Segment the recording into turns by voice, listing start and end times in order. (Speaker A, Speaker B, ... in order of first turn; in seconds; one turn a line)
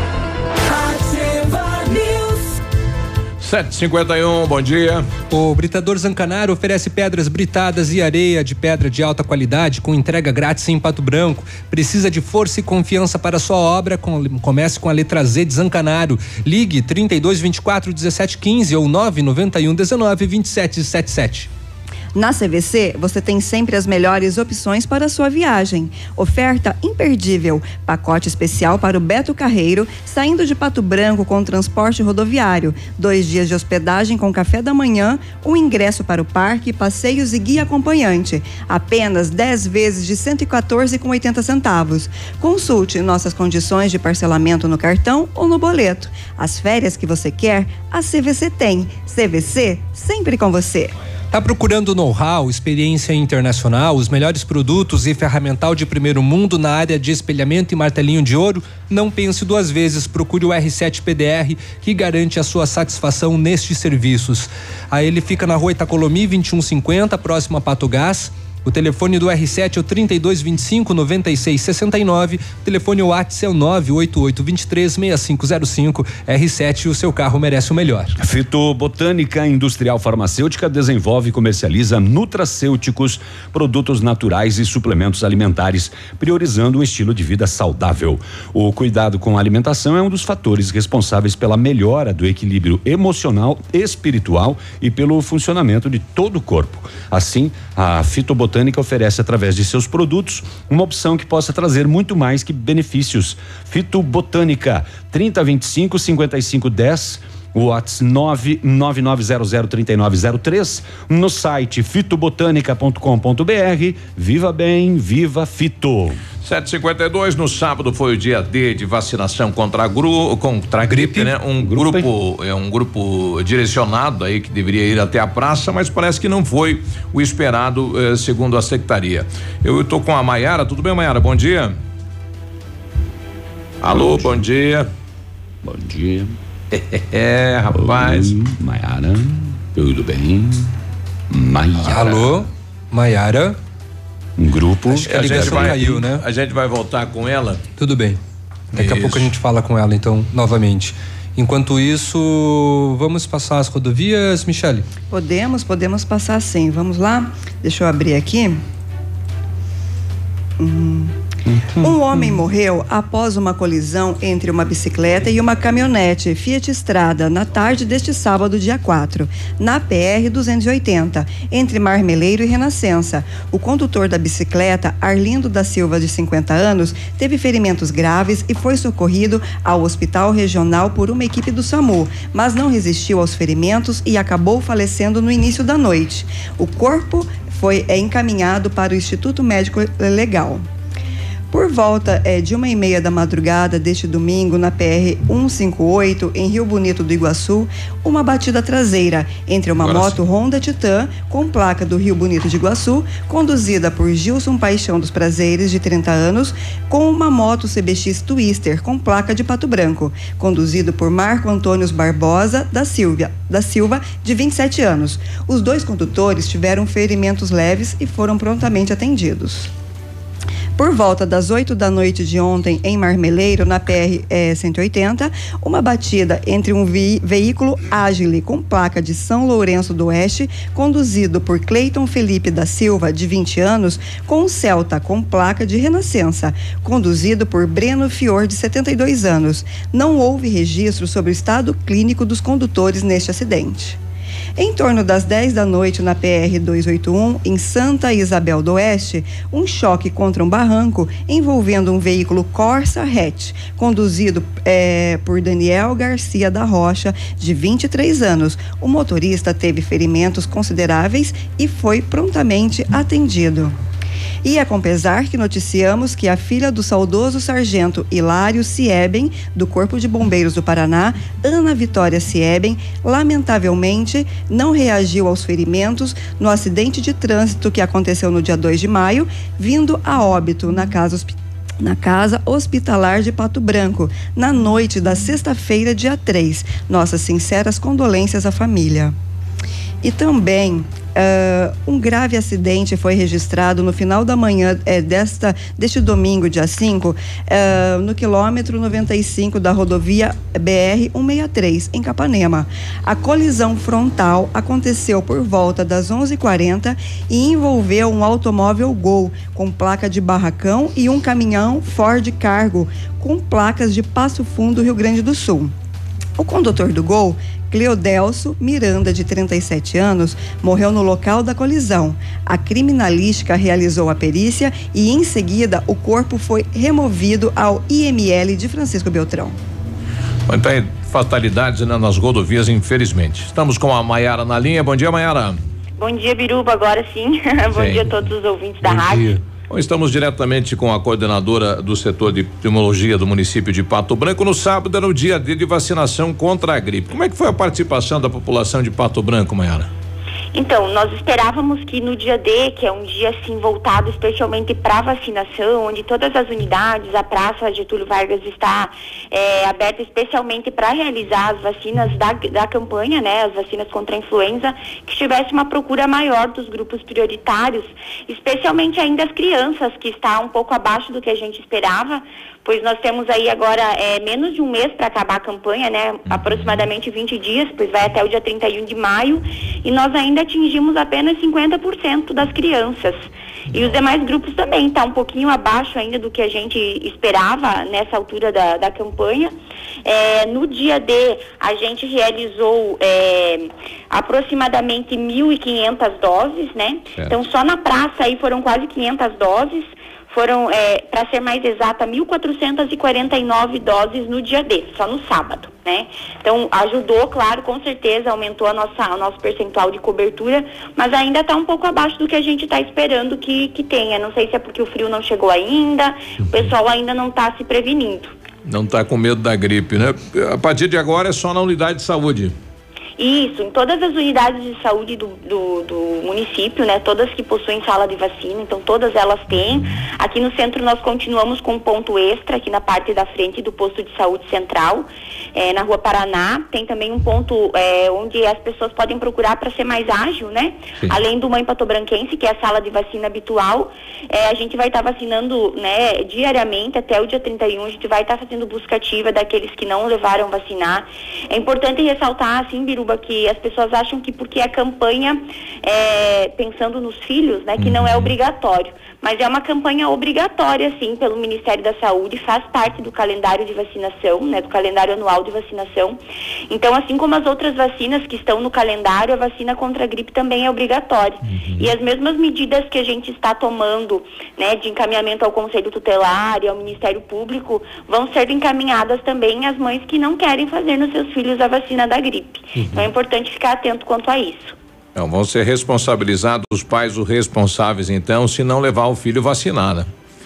Speaker A: 3.4-5.0
Speaker B: 5.3-21.5
Speaker C: 22.1-50.9
Speaker B: 51.3-78.2
Speaker D: 78.2-116.2
Speaker A: 116.4-131.7
Speaker B: 120.9-122.0
Speaker A: 133.8-134.9
Speaker D: 135.6-136.3
Speaker A: 137.1-138.3
Speaker D: 137.7-140.7
Speaker D: 141.3-142.1
Speaker A: 141.8-142.2
Speaker B: 141.8-143.6
Speaker D: 144.4-145.8
Speaker B: 144.8-146.2
Speaker A: 145.1-147.6
Speaker B: 147.8-148.2
Speaker B: 148.7-154.9
Speaker A: 148.8-149.3
Speaker C: 155.1-158.6
Speaker C: 160.6-161.1
Speaker C: 161.8-190.6
Speaker C: 191.5-219.7
Speaker A: 199.8-200.2
Speaker C: 220.8-244.0
Speaker C: 244.6-263.7
Speaker C: 264.4-289.1
Speaker C: 290.0-315.7
Speaker C: 316.4-329.5
Speaker A: 330.5-335.6
Speaker E: 336.0-339.3
Speaker A: 337.7-338.1
Speaker B: 338.8-339.4
Speaker A: 339.7-349.9
Speaker E: 350.5-389.5
Speaker A: 376.3-376.9
Speaker A: 383.7-384.0
Speaker E: 390.0-418.4
Speaker A: 418.6-422.5
Speaker E: 423.2-466.2
Speaker A: 457.8-458.3
Speaker E: 466.7-484.7
Speaker A: 471.4-471.9
Speaker A: 485.1-490.1